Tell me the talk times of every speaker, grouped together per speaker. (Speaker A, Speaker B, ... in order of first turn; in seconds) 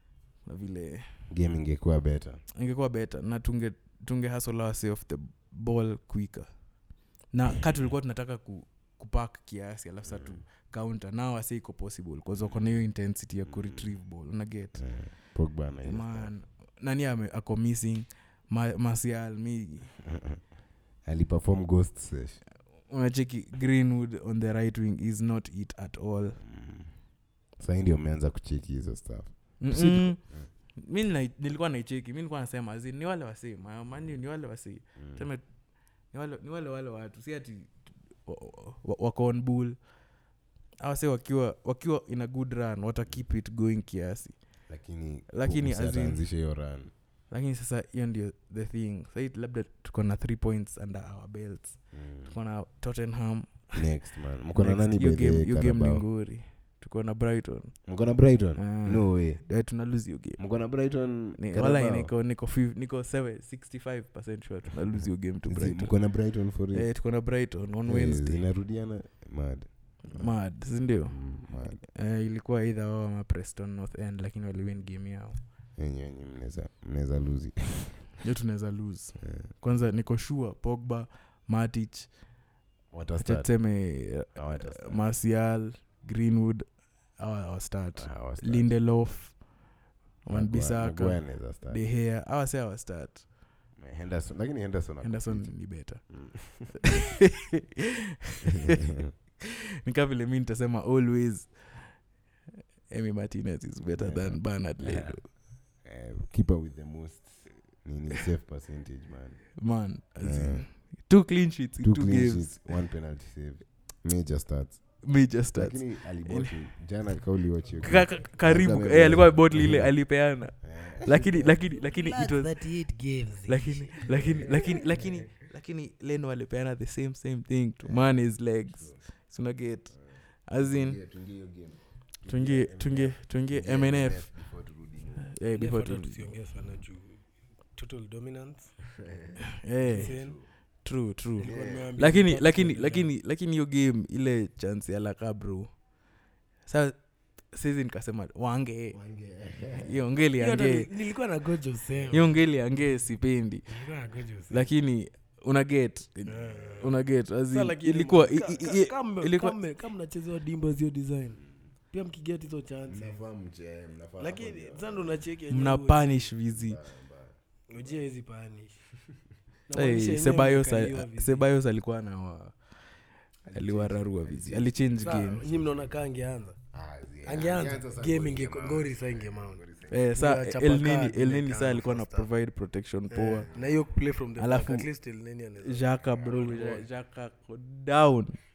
Speaker A: 0.4-1.1, 2.5-6.5, 7.3-14.9, 15.8-19.9, 22.9-26.4, 29.6-35.4, 36.1-39.8, 40.8-44.4, 45.3-46.2, 47.3-53.7, 54.5-57.9, 58.5-60.4, 61.3-66.0, 66.7-68.4, 70.0-75.4, 78.2-82.1, 83.2-89.5, 90.2-93.3, 95.0-96.2, 96.8-98.8, 99.4-101.9, 102.9-105.3, 109.6-112.8, 115.0-116.5, 117.8-122.5, 123.5-131.0, 132.3-134.3, 135.3-136.3, 139.6-140.1, 140.8-145.7, 146.7-147.0, 147.5-149.0, 149.8-150.9, 152.1-153.7, 154.5-159.6, 165.5-166.8, 169.7-172.6, 173.5-175.5, 179.9-183.5, 184.4-184.9, 185.6-188.4
Speaker B: 1.3-2.4, 10.0-10.4, 12.3-12.7, 13.4-13.8, 14.8-16.3, 20.0-20.5, 21.0-22.4, 26.4-26.9, 27.6-30.5, 35.0-35.2, 44.7-46.9, 51.9-52.3, 53.8-56.0, 57.9-59.4, 60.4-62.1, 65.5-66.9, 67.8-70.4, 71.1-71.8, 75.8-78.1, 79.2-79.5, 82.9-83.6, 84.2-85.0, 88.0-88.7, 90.3-91.8, 93.8-96.8, 98.5-99.1, 104.0-109.5, 110.2-110.7, 111.8-115.0, 115.5-119.9, 120.6-121.5, 124.1-125.3, 127.8-129.0, 129.9-135.3, 139.0-140.5, 141.4-141.9, 148.9-150.0, 152.0-152.2, 156.4-156.9, 162.9-165.1, 166.4-167.9, 173.4-174.8, 176.7-180.0
Speaker C: 117.6-118.1, 121.7-124.8, 135.5-137.2, 137.7-138.7, 139.9-140.3, 141.4-143.1, 150.4-152.3, 153.7-154.7, 156.2-156.9, 157.5-163.2, 164.2-166.1, 167.7-168.7, 169.7-171.4, 175.0-176.6, 177.2-179.6, 180.1-182.3, 183.1-186.9